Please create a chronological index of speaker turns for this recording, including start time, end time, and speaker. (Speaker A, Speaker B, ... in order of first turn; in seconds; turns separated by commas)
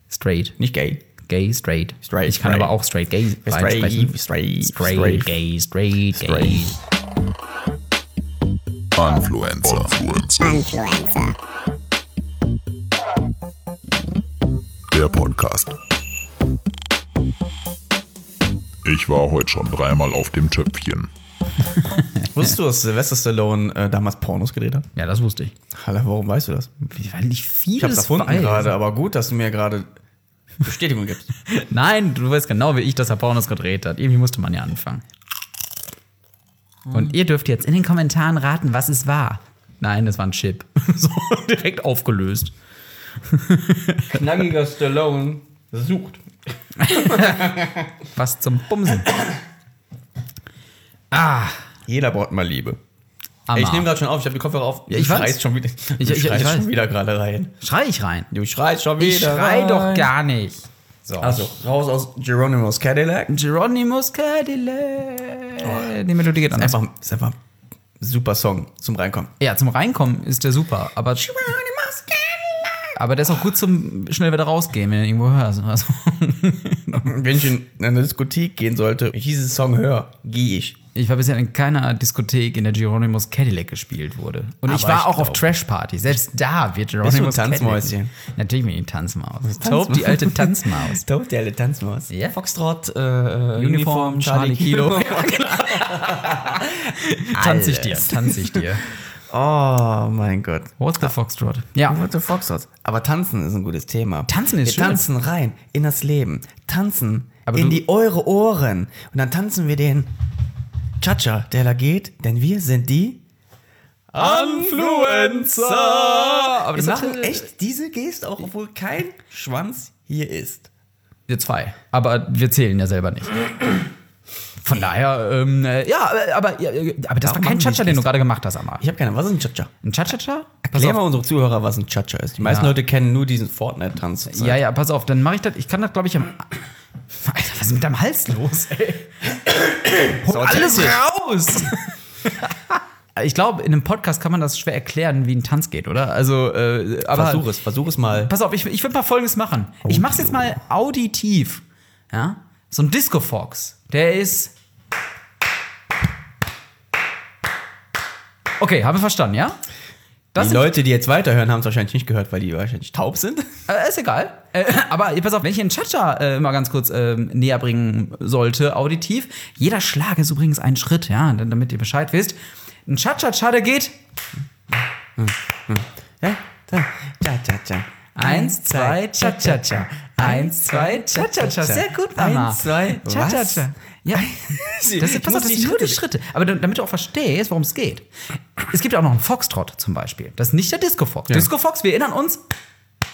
Speaker A: 0.1-0.6, Speaker B: 0.6-1.0, Speaker A: 1.2-6.8, Speaker B: 2.1-2.7, Speaker B: 3.5-5.3, Speaker B: 6.2-6.7, Speaker C: 9.0-11.3, Speaker C: 14.9-15.8, Speaker C: 18.8-21.1, Speaker A: 21.8-22.5, Speaker B: 22.3-24.9, Speaker A: 25.0-25.5, Speaker B: 25.8-26.7, Speaker A: 26.8-28.7, Speaker B: 27.8-29.9, Speaker B: 30.6-31.3, Speaker A: 31.5-35.0, Speaker A: 36.9-42.5, Speaker A: 43.2-44.4, Speaker B: 44.1-46.2, Speaker A: 46.8-47.6, Speaker B: 46.9-47.9, Speaker A: 48.1-49.1, Speaker A: 51.1-51.6, Speaker B: 51.9-52.8, Speaker A: 53.5-53.9, Speaker B: 53.5-57.5, Speaker A: 54.9-55.4, Speaker A: 56.0-56.7, Speaker A: 57.6-58.3, Speaker B: 58.3-60.1, Speaker A: 59.0-61.5, Speaker B: 61.2-63.3, Speaker A: 63.3-66.8, Speaker B: 66.5-67.4, Speaker B: 68.0-69.3, Speaker A: 69.4-71.2, Speaker B: 71.2-73.0, Speaker A: 73.0-77.1, Speaker B: 77.1-80.8, Speaker A: 81.0-91.0, Speaker B: 84.7-85.4, Speaker B: 87.0-88.1, Speaker B: 89.4-101.1, Speaker A: 93.6-98.9, Speaker A: 100.8-102.0, Speaker B: 101.9-110.1, Speaker A: 104.3-105.1, Speaker A: 107.5-107.8, Speaker B: 111.0-113.2, Speaker B: 114.1-120.7, Speaker A: 114.2-117.5, Speaker A: 121.3-123.9, Speaker A: 124.6-128.8, Speaker B: 127.2-128.1, Speaker B: 128.8-129.7, Speaker A: 129.8-131.0, Speaker B: 130.7-134.6, Speaker A: 132.4-132.7, Speaker A: 134.3-136.6, Speaker A: 137.2-147.5, Speaker B: 140.2-141.0, Speaker B: 147.1-148.3, Speaker A: 148.1-154.5, Speaker B: 149.9-150.6, Speaker A: 158.6-159.6, Speaker A: 160.3-160.7, Speaker B: 160.4-163.5, Speaker A: 163.7-173.9, Speaker B: 175.2-186.0, Speaker A: 178.2-192.4